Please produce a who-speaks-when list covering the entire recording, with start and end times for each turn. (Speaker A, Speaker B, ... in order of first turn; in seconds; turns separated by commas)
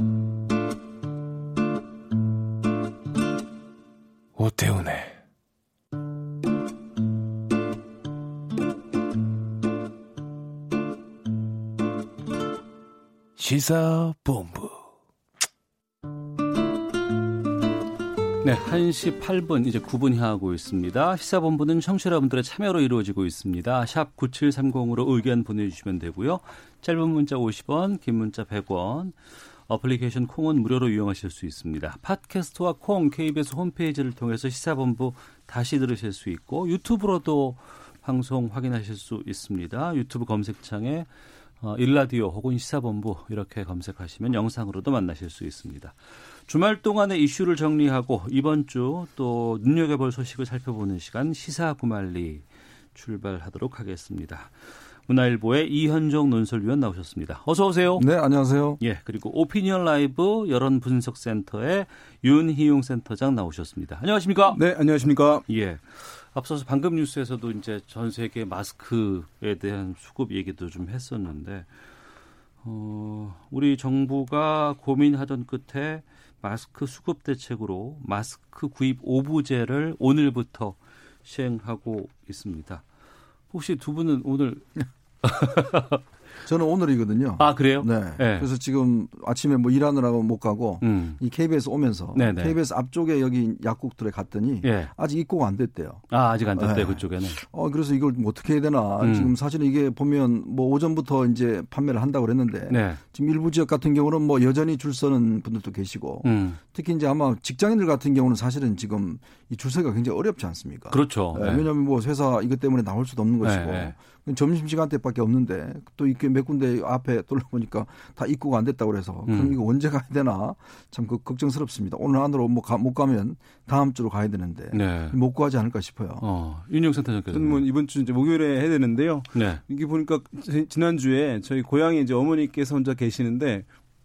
Speaker A: 4.3-5.2, Speaker A: 13.4-14.8, Speaker B: 18.4-41.1, Speaker B: 41.6-46.0, Speaker B: 46.5-54.5, Speaker B: 55.1-58.0, Speaker C: 58.0-58.8, Speaker B: 58.8-64.6, Speaker D: 64.5-65.5, Speaker B: 65.5-71.7, Speaker B: 72.6-82.8, Speaker B: 83.5-86.0, Speaker C: 86.4-126.2, Speaker B: 87.4-88.5, Speaker B: 90.8-91.2, Speaker B: 92.1-92.5, Speaker B: 94.6-94.9, Speaker B: 96.1-97.4, Speaker B: 99.0-99.3, Speaker B: 102.7-103.0, Speaker B: 106.2-106.6, Speaker B: 110.9-111.7, Speaker B: 113.4-113.9, Speaker B: 119.3-119.6, Speaker B: 124.7-125.2, Speaker B: 126.2-127.6, Speaker D: 127.3-133.7, Speaker B: 129.3-129.6